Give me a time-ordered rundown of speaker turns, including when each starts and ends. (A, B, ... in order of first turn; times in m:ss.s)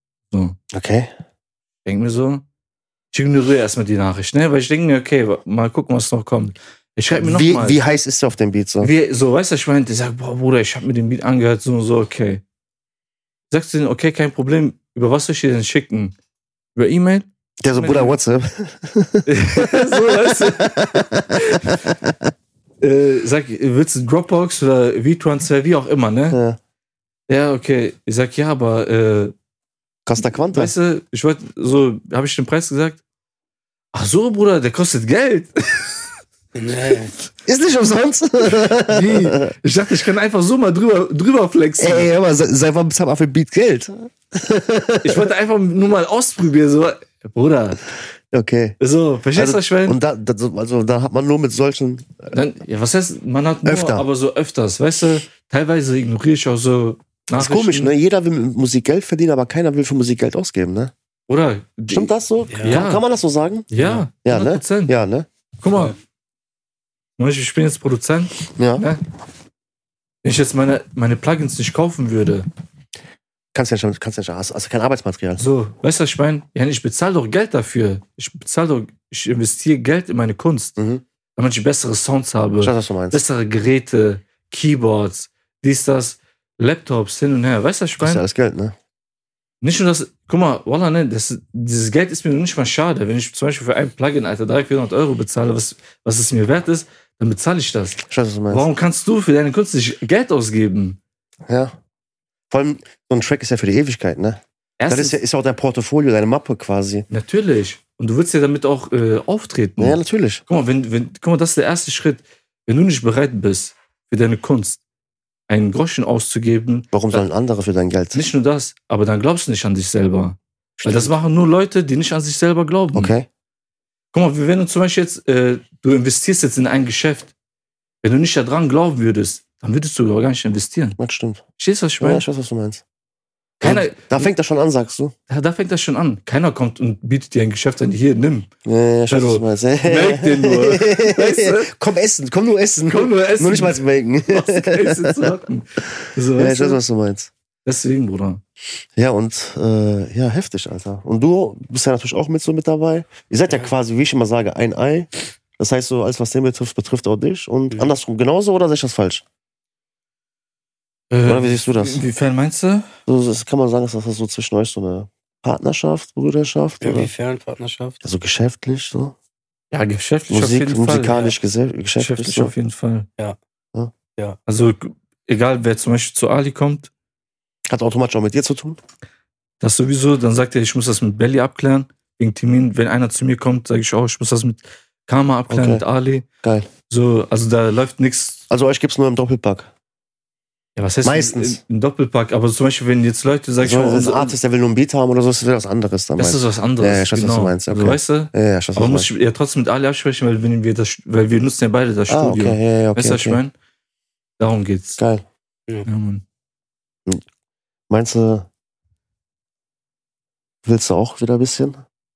0:00.3-0:00.6 A
0:00.7-0:01.1 B
0:01.8-0:02.4 A
0:03.1-0:07.8 A
0:07.1-0:08.9 B
0:08.8-0:12.4 A
0:13.5-0:16.1 A
0:16.7-0:18.2 A
0:17.6-0:22.2 B
0:19.2-0:21.8 A
0:22.8-0:26.4 A
0:26.3-0:26.6 B
0:27.3-0:29.3 A
0:30.0-0:30.7 B
0:30.2-0:33.0 A
0:33.9-0:36.1 A
0:36.5-0:37.1 C
0:37.5-0:39.5 B
0:38.6-0:42.1 A
0:41.8-0:45.3 B
0:45.0-0:47.8 A
0:48.3-0:48.8 B
0:48.8-0:50.0 A
0:49.3-0:52.2 B
0:52.3-0:57.9 A
0:53.6-0:54.0 B
0:57.4-1:00.9 B
1:01.3-1:03.0 A
1:01.9-1:03.7 B
1:02.5-1:02.8 C
1:03.7-1:05.0 A
1:03.8-1:04.0 C
1:04.2-1:05.3 B
1:05.6-1:05.9 A
1:07.2-1:09.0 A
1:08.6-1:08.8 B
1:10.2-1:12.5 A
1:13.5-1:15.4 B
1:15.4-1:20.8 A
1:20.8-1:21.0 B
1:21.4-1:28.2 A
1:22.6-1:23.2 B
1:28.0-1:28.7 B
1:29.6-1:41.0 A
1:38.1-1:38.6 B
1:41.5-1:41.7 B
1:42.5-1:47.0 B
1:44.8-1:45.2 A
1:47.1-1:54.8 A
1:49.8-1:50.4 B
1:55.5-1:57.2 A
1:56.9-1:58.2 B
1:58.1-2:03.1 A
2:00.8-2:01.2 B
2:02.9-2:03.3 B
2:04.1-2:07.3 A
2:08.0-2:11.0 A
2:11.0-2:11.4 B
2:11.6-2:12.2 A
2:12.0-2:12.8 B
2:13.6-2:14.2 A
2:13.6-2:15.1 B
2:15.3-2:18.5 A
2:18.6-2:25.3 B
2:19.1-2:21.7 A
2:22.9-2:26.8 A
2:26.4-2:27.3 B
2:27.6-2:28.4 A
2:29.0-2:39.2 B
2:41.1-2:42.9 A
2:41.2-2:42.0 B
2:43.1-2:47.1 B
2:46.8-2:48.0 C
2:48.0-2:49.1 B
2:49.7-2:51.3 A
2:50.3-2:52.5 B
2:52.0-2:53.1 A
2:54.5-2:56.9 A
2:57.7-2:58.8 B
2:59.6-3:06.2 A
3:05.5-3:05.8 B
3:06.4-3:06.7 B
3:06.9-3:08.4 A
3:08.5-3:09.7 B
3:10.8-3:14.4 A
3:11.0-3:11.6 B
3:13.6-3:19.1 B
3:16.2-3:23.5 A
3:22.1-3:23.4 B
3:24.4-3:25.0 A
3:25.0-3:25.2 B
3:25.8-3:26.2 A
3:27.9-3:28.5 B
3:30.6-3:31.8 B